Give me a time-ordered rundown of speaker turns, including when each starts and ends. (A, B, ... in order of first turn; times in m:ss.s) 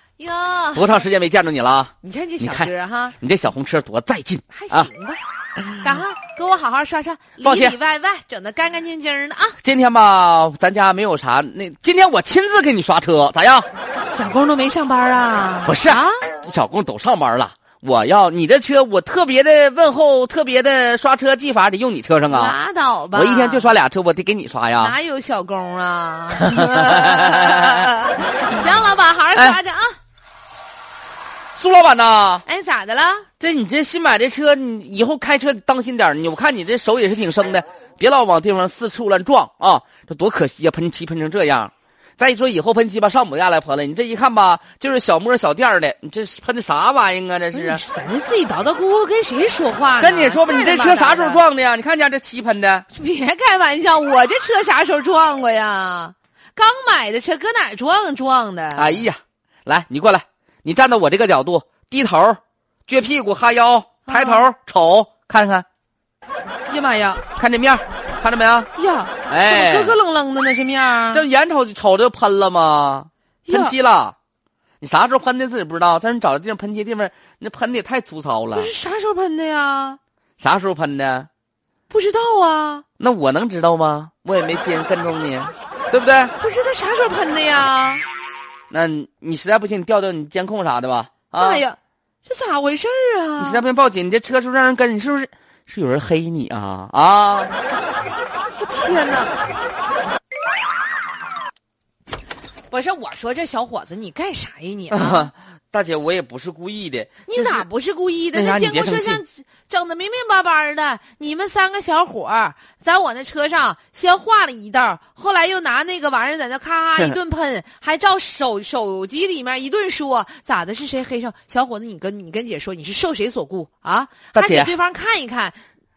0:00.2-0:00.9 A
0:00.7-0:04.9 B
0:02.0-0:03.1 A
0:04.5-0:05.2 A
0:05.7-0:06.0 B
0:05.8-0:09.6 A
0:07.4-0:07.8 B
0:09.6-0:13.7 B
0:14.1-0:16.3 A
0:15.6-0:22.6 B
0:22.3-0:23.7 A
0:23.1-0:25.0 B
0:24.8-0:30.0 A
0:26.3-0:27.9 B
0:31.5-0:32.4 B
0:32.4-0:33.3 A
0:33.4-0:47.8 B
0:47.5-0:51.4 A
0:50.0-0:52.9 B
0:52.9-0:59.1 A
0:58.8-1:05.6 B
1:04.1-1:04.4 A
1:06.7-1:07.2 A
1:07.4-1:08.7 B
1:08.8-1:11.2 A
1:09.3-1:10.0 B
1:11.1-1:14.1 B
1:13.5-1:13.7 A
1:14.8-1:18.7 B
1:18.5-1:20.0 A
1:20.4-1:21.3 B
1:21.9-1:22.8 A
1:23.0-1:26.3 B
1:26.4-1:28.0 A
1:28.7-1:31.6 B
1:31.3-1:33.6 A
1:33.4-1:37.5 B
1:38.6-1:39.3 A
1:42.7-1:45.3 A
1:44.9-1:47.6 B
1:47.3-2:05.6 A
1:48.3-1:49.2 B
2:04.3-2:04.7 B